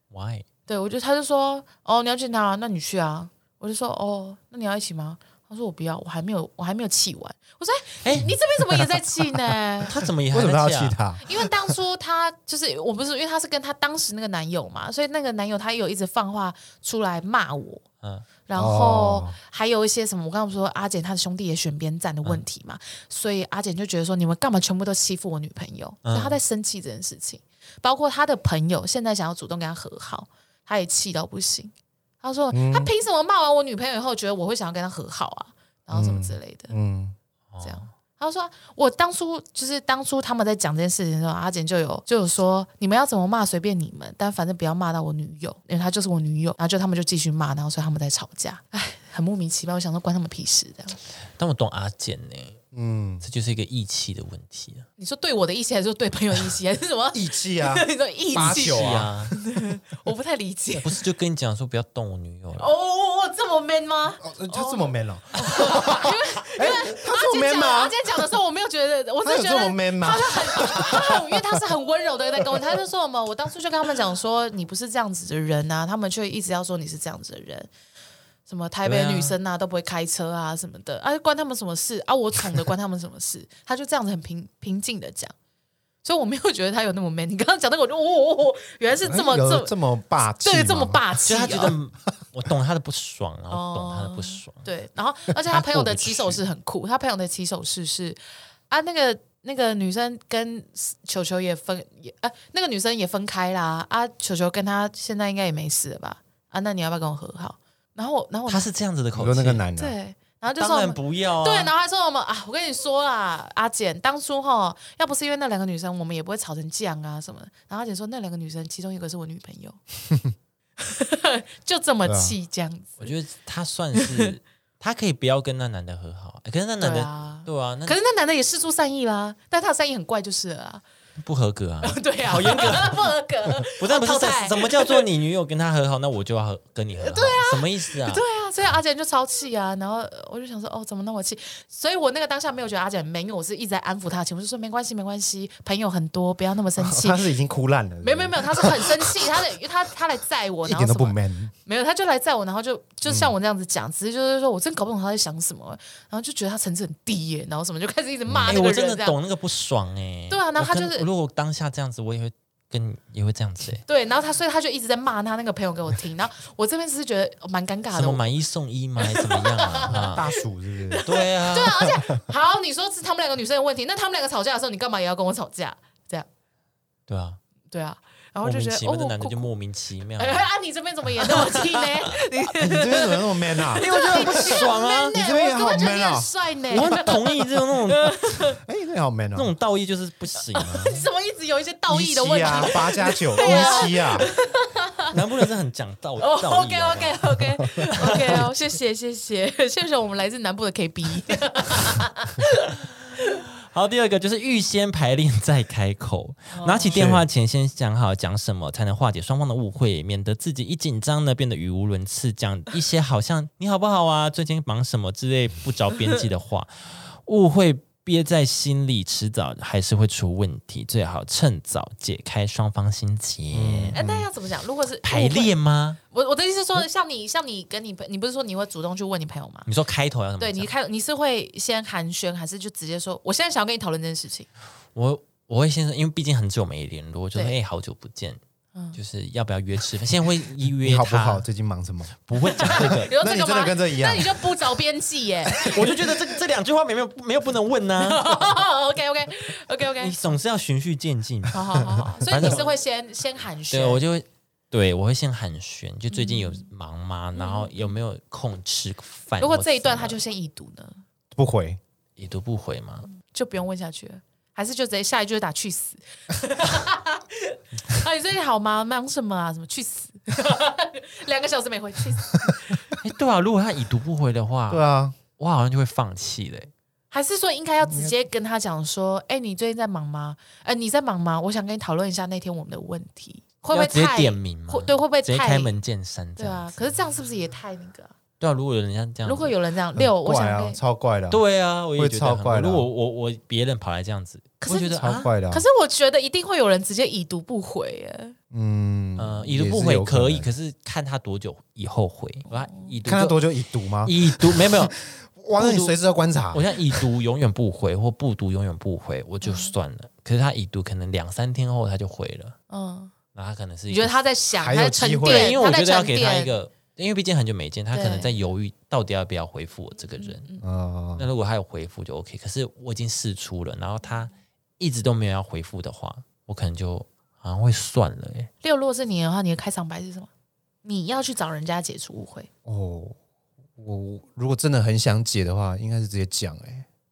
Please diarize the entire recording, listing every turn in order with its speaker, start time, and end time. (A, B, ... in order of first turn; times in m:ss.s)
0:00.1-0:00.4 A
0:00.7-0:09.9 B
0:08.0-0:08.4 A
0:09.9-0:11.0 A
0:10.3-0:11.7 C
0:11.2-0:17.8 B
0:18.5-0:36.7 B
0:18.6-0:19.4 C
0:26.0-0:26.4 A
0:32.5-0:32.9 C
0:35.9-0:37.2 C
0:37.5-0:37.9 A
0:37.6-0:51.0 B
0:51.4-0:52.6 A
0:52.7-0:53.2 C
0:53.2-0:54.8 A
0:55.0-1:01.0 B
0:57.1-0:59.2 C
0:58.4-0:59.3 A
1:00.8-1:02.7 A
1:02.6-1:17.7 B
1:04.2-1:08.3 C
1:09.2-1:11.6 C
1:18.5-1:25.3 B
1:18.8-1:19.4 A
1:26.0-1:29.7 B
1:29.0-1:31.0 C
1:30.4-1:31.8 B
1:31.2-1:34.6 A
1:33.5-1:38.2 B
1:35.5-1:36.4 A
1:38.7-1:48.7 B
1:48.5-1:49.6 A
1:49.1-1:50.0 C
1:49.8-1:59.8 B
1:50.6-1:51.7 A
2:00.8-2:03.1 B
2:02.0-2:02.4 C
2:03.0-2:08.0 A
2:04.0-2:04.2 B
2:06.8-2:10.8 B
2:11.2-2:13.1 A
2:11.8-2:15.0 B
2:13.8-2:18.2 A
2:17.0-2:27.3 B
2:26.8-2:29.3 C
2:28.0-2:39.2 B
2:30.6-2:31.5 C
2:33.0-2:33.3 C
2:38.3-2:38.6 C
2:38.5-2:43.8 A
2:40.3-2:41.1 B
2:43.9-2:48.2 B
2:47.9-2:50.3 A
2:49.0-2:56.3 B
2:49.9-2:51.0 C
2:51.0-2:51.9 A
2:51.8-2:52.2 C
2:57.1-2:57.4 A
2:57.7-2:59.5 B
2:58.4-3:00.5 A
3:00.2-3:08.6 B
3:01.2-3:02.1 A
3:02.6-3:06.3 C
3:03.7-3:05.2 A
3:06.7-3:08.3 A
3:08.6-3:09.5 C
3:09.3-3:11.0 A
3:10.5-3:15.2 B
3:11.9-3:14.3 C
3:13.4-3:14.2 A
3:15.1-3:18.5 A
3:16.2-3:23.4 B
3:17.8-3:18.4 C
3:23.6-3:44.0 A
3:26.5-3:27.0 B
3:26.9-3:27.2 C
3:43.5-3:44.3 C
3:43.9-3:45.5 B
3:45.0-3:46.0 A
3:46.1-3:49.7 B
3:49.6-3:50.7 A
3:50.4-3:54.5 B
3:54.9-3:58.4 A
3:58.9-4:01.4 A
4:00.8-4:04.5 C
4:02.2-4:03.1 A
4:02.4-4:06.1 B
4:05.6-4:08.6 A
4:08.0-4:10.4 B
4:10.0-4:12.7 A
4:11.5-4:14.0 B
4:11.9-4:12.5 C
4:13.7-4:20.2 A
4:16.1-4:16.7 B
4:17.3-4:17.9 B
4:19.4-4:21.0 B
4:21.3-4:21.8 C
4:22.2-4:23.1 A
4:23.2-4:32.9 B
4:33.0-4:34.8 A
4:34.7-4:35.2 C
4:35.4-4:36.7 A
4:37.1-4:45.7 B
4:37.9-4:38.1 C
4:43.7-4:46.9 A
4:46.4-4:48.1 B
4:48.4-4:49.6 A
4:49.2-4:50.8 B
4:49.9-4:51.4 C
4:51.3-4:55.3 A
4:51.9-4:52.9 C
4:54.6-4:58.4 B
4:54.7-4:55.6 C
4:58.5-5:00.5 C
4:59.2-5:03.4 A
5:02.5-5:02.9 B
5:03.0-5:07.0 C
5:04.0-5:05.0 A
5:05.5-5:06.0 A
5:06.5-5:12.6 A
5:09.4-5:09.7 B
5:12.7-5:13.1 B
5:13.3-5:14.2 A
5:13.9-5:16.5 B
5:14.5-5:15.6 C
5:15.2-5:20.5 A
5:17.9-5:18.4 B
5:20.2-5:20.6 B
5:20.6-5:21.3 C
5:21.2-5:28.5 A
5:28.6-5:30.3 B
5:30.8-5:32.5 B
5:32.6-5:33.2 C
5:33.8-5:36.8 C